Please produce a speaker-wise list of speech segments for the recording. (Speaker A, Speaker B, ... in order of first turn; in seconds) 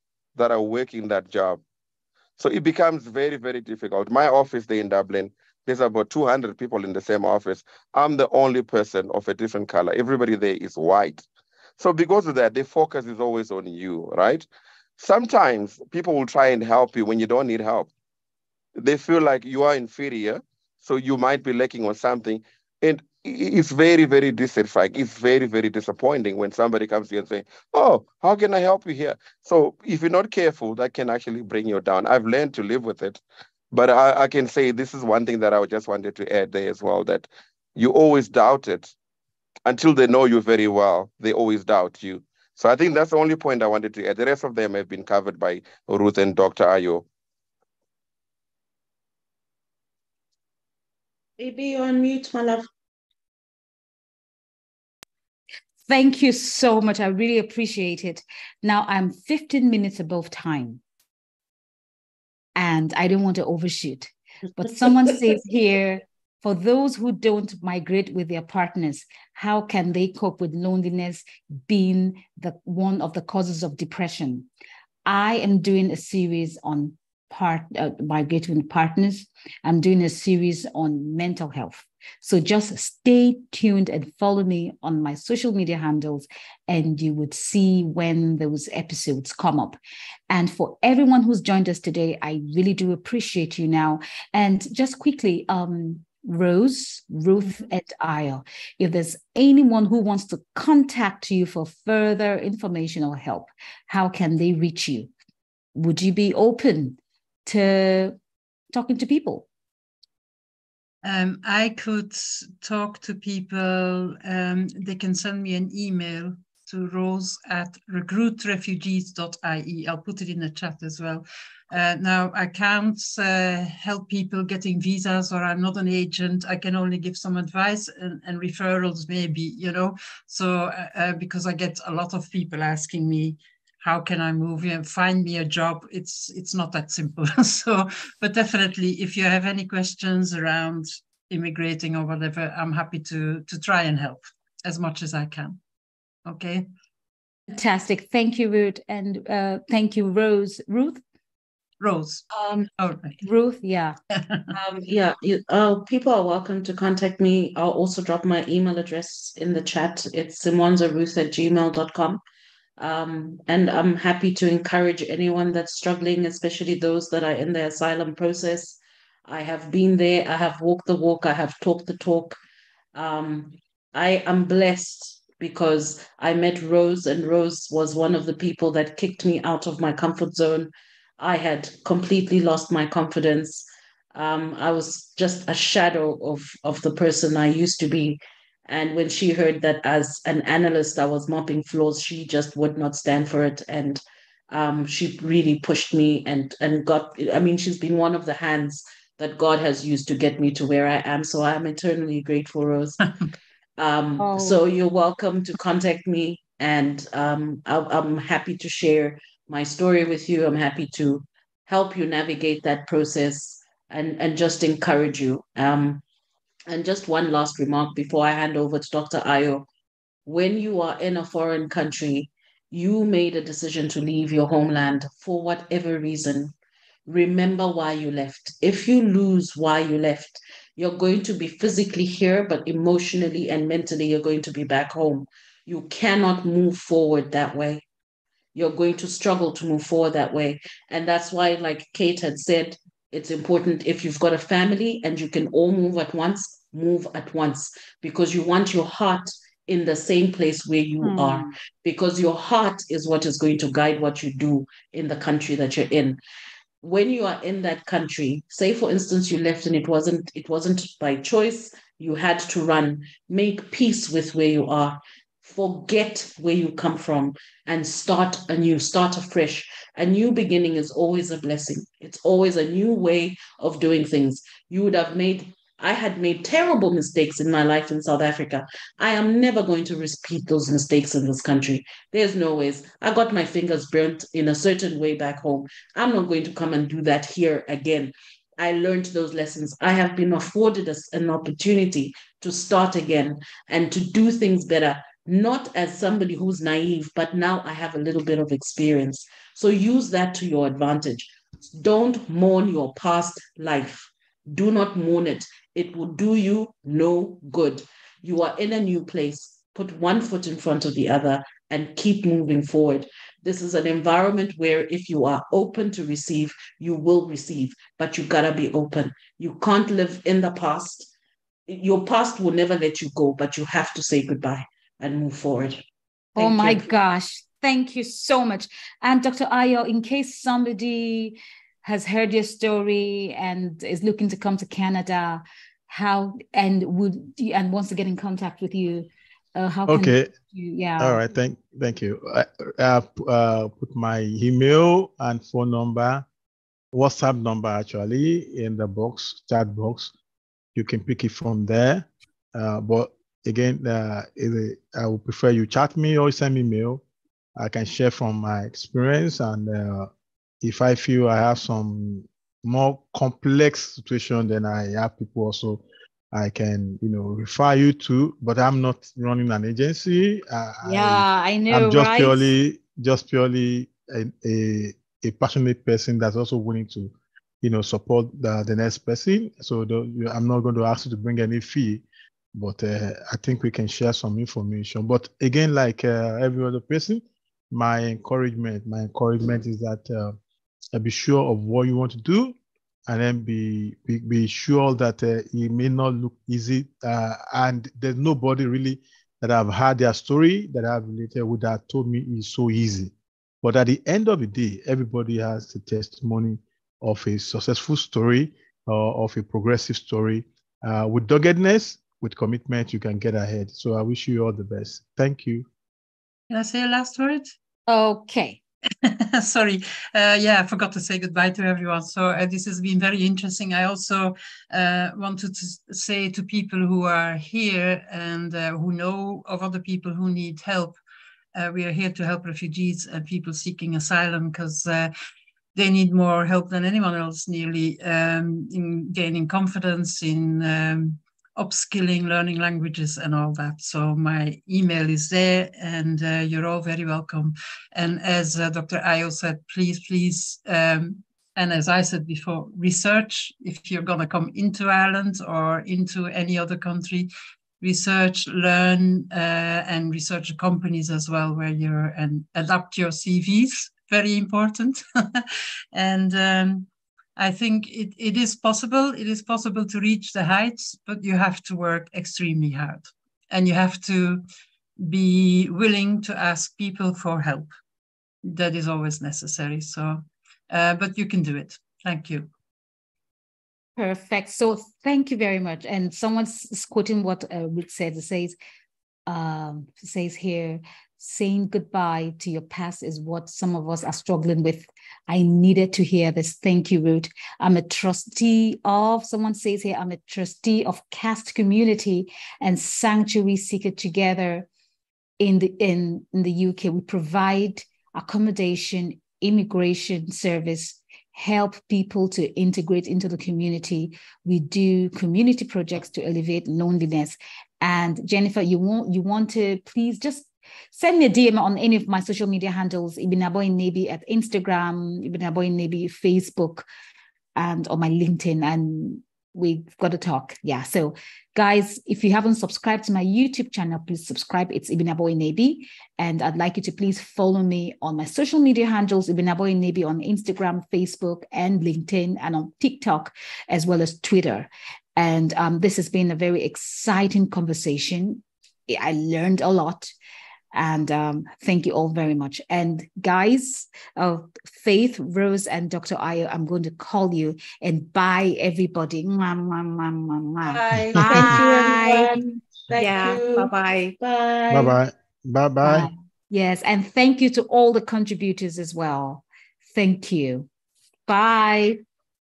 Speaker A: 0.4-1.6, 2.4-11.2, 11.8-14.5, 15.0-17.9, 18.8-33.2, 33.7-38.9, 39.7-47.0
Speaker B: 51.4-52.7, 152.3-152.7, 154.5-162.2, 162.8-172.4, 172.9-203.0, 203.8-216.0, 216.7-219.7, 220.3-226.5, 227.1-237.8, 238.6-256.2, 256.8-321.1, 321.7-325.8, 326.4-326.9, 561.2-565.0
Speaker C: 55.9-60.8, 62.6-74.5, 75.1-89.8, 90.3-105.1, 105.8-108.2, 108.7-109.5, 147.5-151.0, 153.2-154.0, 204.2-204.6, 251.0-251.6, 326.4-341.2, 370.8-372.4, 417.9-418.6, 484.0-488.6, 489.3-504.7, 505.4-526.9, 527.6-550.1, 550.7-562.4, 563.0-564.2, 565.8-570.7, 571.3-572.0
Speaker D: 111.0-145.6, 146.3-146.7, 151.8-152.2, 152.8-153.2, 154.1-154.5, 416.5-417.5, 419.0-431.0, 431.6-435.1, 435.8-457.3, 457.8-474.4, 475.0-477.7, 478.4-482.5, 560.7-562.1
Speaker E: 339.9-340.3, 341.0-346.3, 346.9-350.1, 350.8-357.0, 357.6-360.1, 360.6-390.4, 390.9-392.6, 393.1-415.7, 561.2-561.5, 564.7-566.1